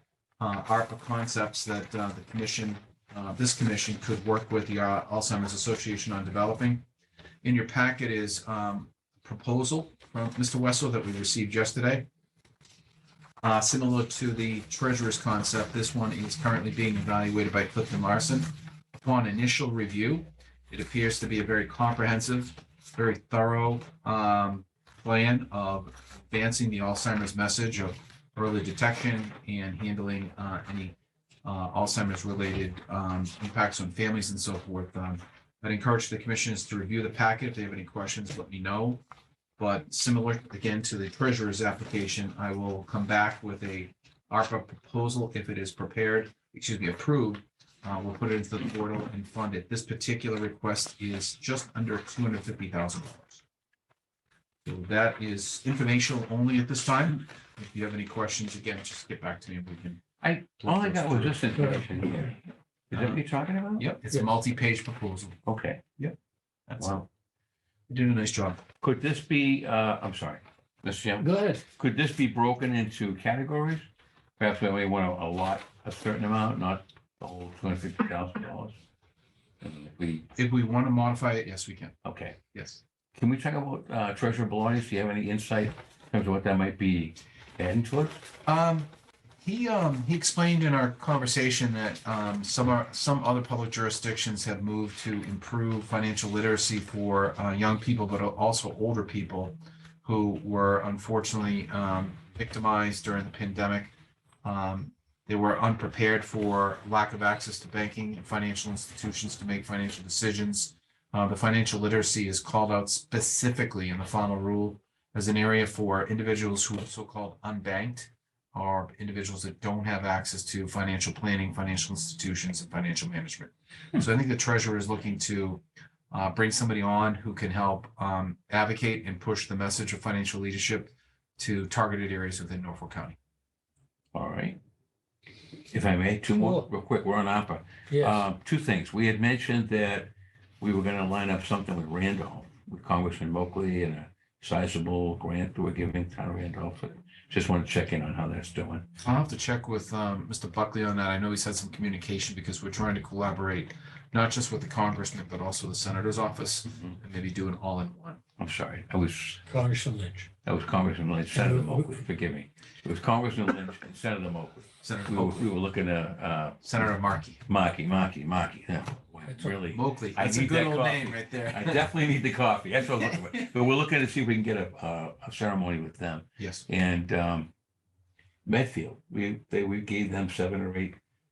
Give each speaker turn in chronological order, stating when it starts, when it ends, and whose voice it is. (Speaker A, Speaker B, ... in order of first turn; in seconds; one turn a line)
Speaker A: 0.4-6.8
Speaker A: 7.4-12.1
Speaker A: 13.4-39.0
Speaker A: 39.6-53.4
Speaker A: 54.6-60.0
Speaker B: 60.2-62.4
Speaker A: 60.6-61.9
Speaker C: 61.6-61.8
Speaker A: 62.9-63.2
Speaker B: 62.9-63.9
Speaker A: 63.8-65.4
Speaker B: 65.5-65.8
Speaker A: 66.7-67.0
Speaker B: 66.8-67.0
Speaker A: 67.9-68.6
Speaker B: 68.8-73.8
Speaker C: 71.2-71.6
Speaker B: 74.4-78.8
Speaker B: 79.6-80.3
Speaker A: 80.3-82.0
Speaker B: 82.0-82.4
Speaker A: 82.5-82.8
Speaker B: 83.1-88.2
Speaker A: 88.4-88.9
Speaker A: 89.4-103.9
Speaker A: 104.4-133.2
Speaker B: 134.1-134.6
Speaker B: 135.7-148.9
Speaker C: 136.3-136.7
Speaker C: 137.9-138.2
Speaker A: 149.0-158.2
Speaker B: 158.4-159.4
Speaker C: 159.4-160.3
Speaker B: 160.4-166.9
Speaker C: 161.3-161.9
Speaker A: 164.8-165.5
Speaker A: 166.6-167.4
Speaker B: 167.4-177.5
Speaker C: 169.3-169.6
Speaker A: 169.7-171.9
Speaker A: 176.4-176.6
Speaker B: 178.4-181.0